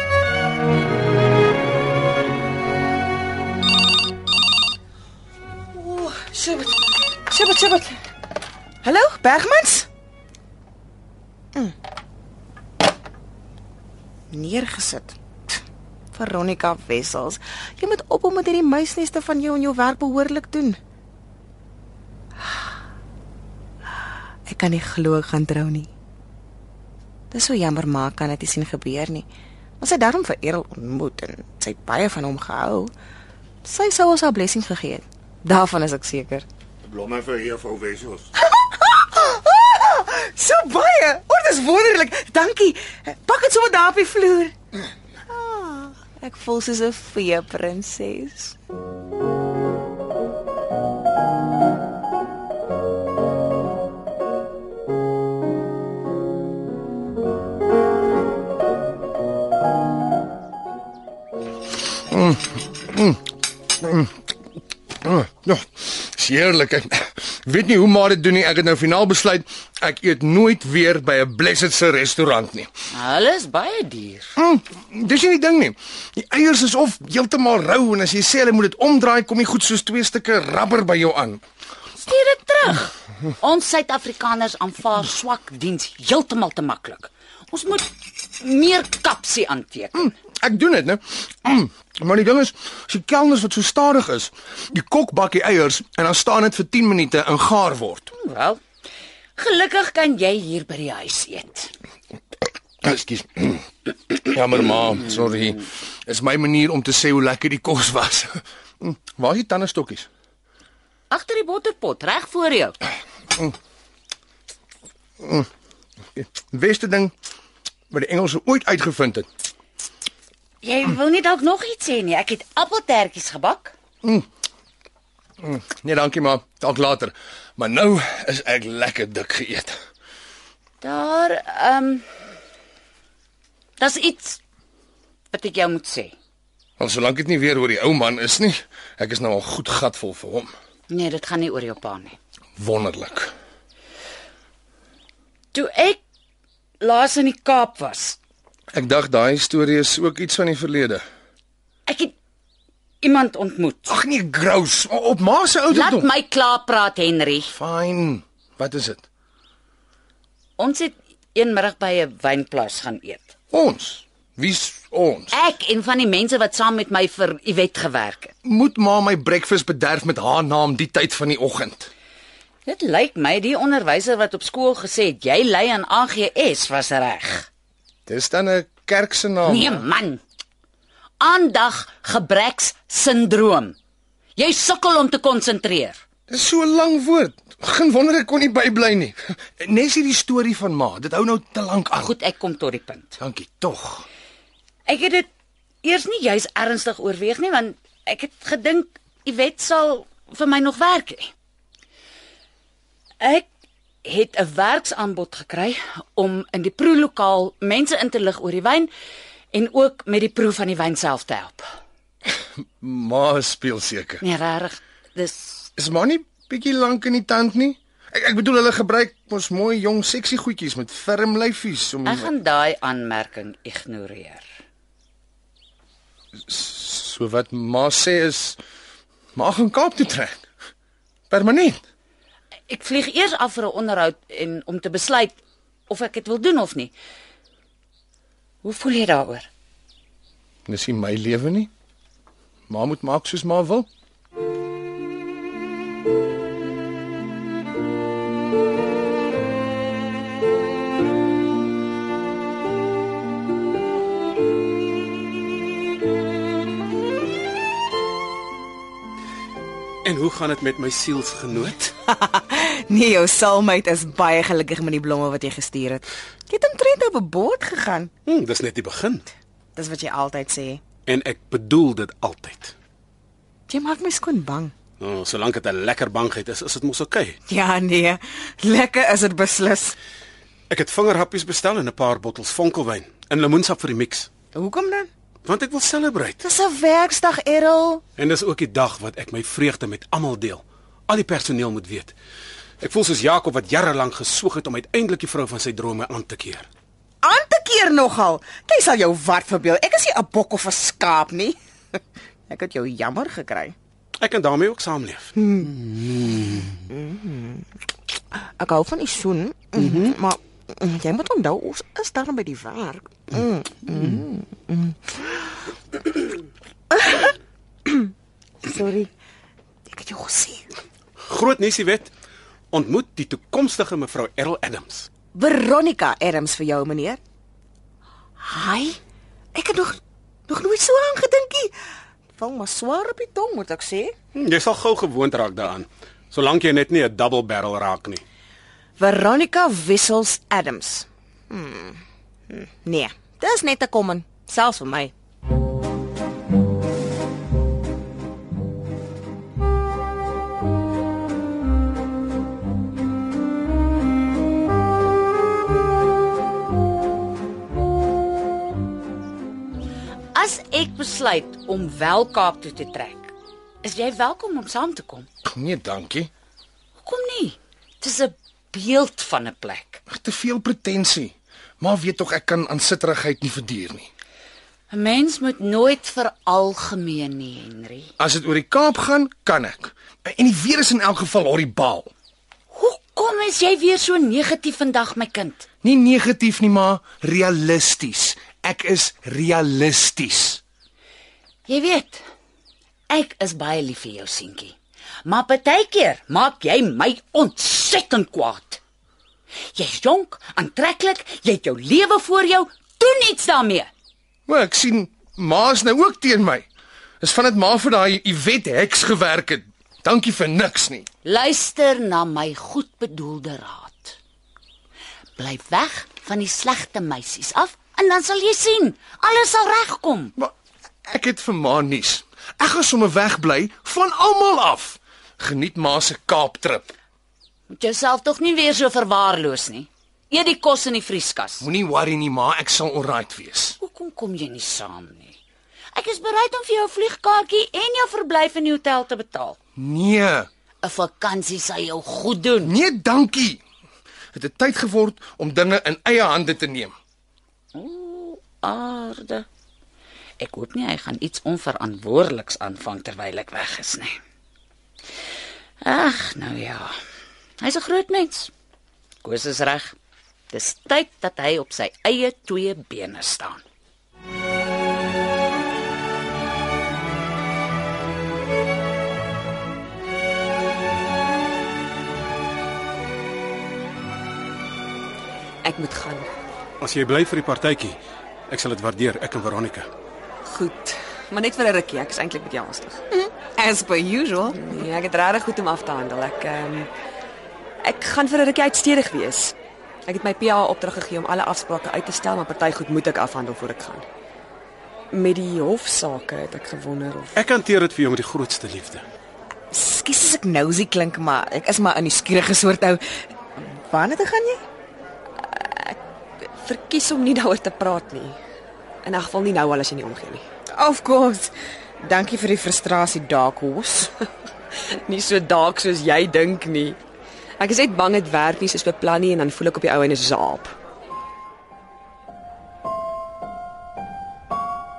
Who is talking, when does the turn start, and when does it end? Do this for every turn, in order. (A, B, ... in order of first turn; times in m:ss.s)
0:05.8-0:08.0 A
0:08.8-0:09.9 A
0:14.3-0:15.6 A
0:16.1-0:20.8 A
0:24.5-0:25.9 A
0:27.3-0:29.2 A
0:29.8-0:32.9 A
0:33.6-0:36.4 A
0:38.5-0:44.5 A
0:45.3-0:48.6 A
1:02.1-1:03.2 B
1:03.8-1:04.2 B
1:05.0-1:12.7 B
1:12.9-1:14.3 C
1:14.4-1:21.4 B
1:22.0-1:27.8 C
1:28.4-1:30.1 C
1:30.0-1:38.1 B
1:38.1-1:38.6 C
1:39.4-1:41.7 C
1:42.8-1:43.6 B
1:44.2-1:50.1 B
1:51.1-1:52.8 C
1:55.2-1:55.5 B
1:56.2-1:57.1 B
1:57.9-1:59.2 B
2:00.6-2:03.7 C
2:05.4-2:09.7 B
2:10.8-2:12.0 C
2:13.8-2:14.4 C
2:15.3-2:16.1 C
2:16.8-2:20.5 B
2:20.9-2:22.2 C
2:22.6-2:23.3 B
2:25.5-2:26.0 C
2:26.8-2:28.2 C
2:28.7-2:31.0 B
2:31.9-2:32.1 C
2:33.0-2:33.9 C
2:33.9-2:36.1 B
2:35.7-2:37.5 C
2:37.5-2:39.0 B
2:40.6-2:43.3 C
2:43.5-2:45.4 B
2:45.3-2:48.3 C
2:48.4-2:51.9 B
2:52.6-2:57.5 C
2:58.1-2:59.8 B
2:59.4-3:00.2 C
3:01.2-3:03.8 C
3:04.4-3:06.0 C
3:06.3-3:12.1 B
3:12.0-3:13.2 C
3:13.2-3:14.0 B
3:14.9-3:15.3 C
3:15.8-3:21.3 C
3:23.2-3:23.5 C
3:24.0-3:28.9 C
3:29.5-3:31.6 C
3:32.3-3:34.2 B
3:34.2-3:35.7 C
3:35.8-3:42.3 B
3:42.0-3:44.4 C
3:46.5-3:48.6 B
3:49.4-3:50.4 B
3:51.3-3:51.8 B
3:52.7-3:56.9 C
3:58.6-3:59.5 C
4:00.7-4:01.7 B
4:02.7-4:03.9 B
4:20.0-4:21.9 D
4:22.1-4:28.1 A
4:28.2-4:29.3 D
4:29.8-4:30.8 A
4:31.0-4:32.7 D
4:33.7-4:34.7 A
4:35.0-4:37.4 D
4:37.5-4:40.0 A
4:40.7-4:44.3 D
4:44.5-4:45.1 A
4:45.4-4:46.4 D
4:46.4-4:48.0 A
4:48.2-4:52.1 D
4:52.8-4:56.7 D
4:57.2-5:01.6 A
5:02.5-5:03.7 A
5:04.2-5:06.8 D
5:05.4-5:05.7 A
5:06.9-5:07.6 A
5:08.3-5:15.4 A
5:09.8-5:10.1 D
5:16.9-5:17.3 A
5:18.6-5:19.1 A
5:19.9-5:20.7 A
5:21.3-5:22.1 D
5:22.7-5:25.1 D
5:25.3-5:27.2 A
5:28.4-5:29.0 A
5:29.5-5:31.7 A
5:32.4-5:34.1 A
5:34.3-5:38.2 D
5:39.0-5:45.1 A
6:00.3-6:05.3 C
6:05.5-6:06.3 B
6:07.0-6:10.0 C
6:10.1-6:14.1 B
6:14.9-6:18.1 C
6:18.2-6:22.1 B
6:22.7-6:25.7 C
6:25.8-6:30.6 B
6:31.6-6:32.2 C
6:33.1-6:38.8 C
6:39.7-6:43.9 C
6:44.5-6:46.6 B
6:47.2-6:51.1 B
6:51.2-6:54.2 C
6:55.4-7:00.3 C
7:01.1-7:06.9 B
7:07.7-7:11.6 C
7:11.6-7:13.8 B
7:13.8-7:15.4 C
7:15.9-7:19.6 C
7:19.8-7:20.5 B
7:20.8-7:22.7 C
7:22.6-7:23.6 B
7:24.3-7:26.9 B
7:27.7-7:29.4 C
7:30.4-7:34.2 C
7:35.8-7:36.9 C
7:37.6-7:38.5 C
7:39.2-7:40.0 C
7:40.5-7:43.6 C
7:55.6-7:56.3 E
7:56.8-7:59.9 D
8:00.5-8:03.0 E
8:03.1-8:04.8 A
8:04.5-8:06.9 E
8:07.8-8:09.5 E
8:10.1-8:14.0 E
8:15.1-8:17.4 E
8:17.3-8:19.0 D
8:19.7-8:23.0 A
8:23.6-8:24.6 A
8:25.4-8:26.0 E
8:26.6-8:28.4 E
8:29.0-8:30.4 E
8:30.7-8:34.1 A
8:34.9-8:37.0 E
8:37.6-8:40.7 E